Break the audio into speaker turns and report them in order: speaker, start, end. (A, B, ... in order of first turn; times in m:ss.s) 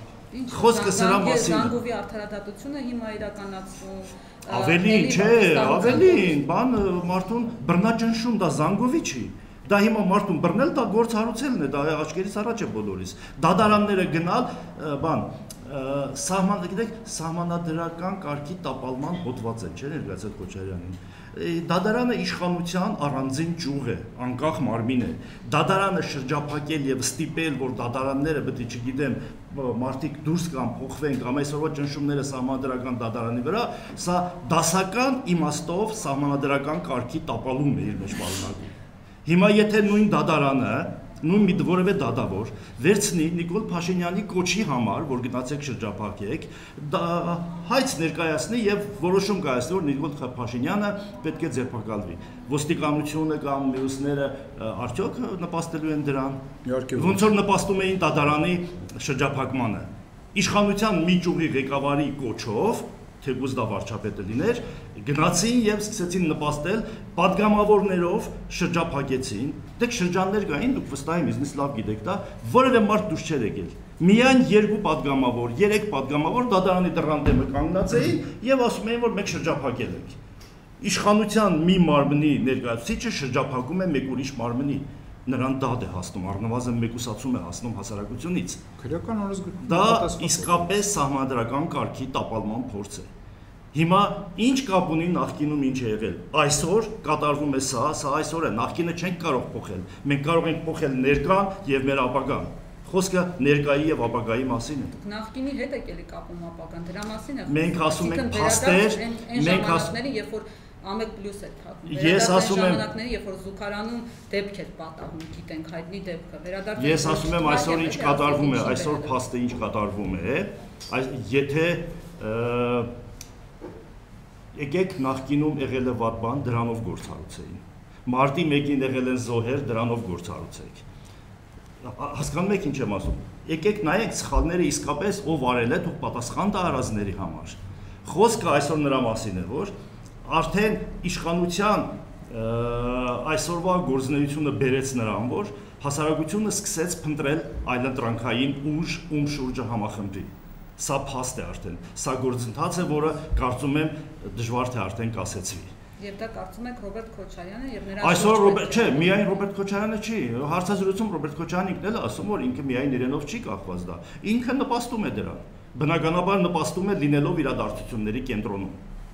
0:00.3-0:06.4 A
0:00.5-0:01.8 B
0:04.5-0:38.7 B
0:39.2-0:56.4 B
0:56.6-0:57.3 C
0:56.9-1:20.2 B
1:20.8-1:28.6 B
1:28.8-1:30.8 C
1:29.6-1:33.1 B
1:33.7-1:44.9 B
1:44.9-1:59.2 A
1:47.5-1:49.9 B
1:51.9-1:52.8 B
1:56.8-2:02.9 B
2:04.5-2:10.8 B
2:11.8-2:19.7 B
2:20.2-2:35.7 B
2:36.0-2:39.4 A
2:38.0-2:48.8 B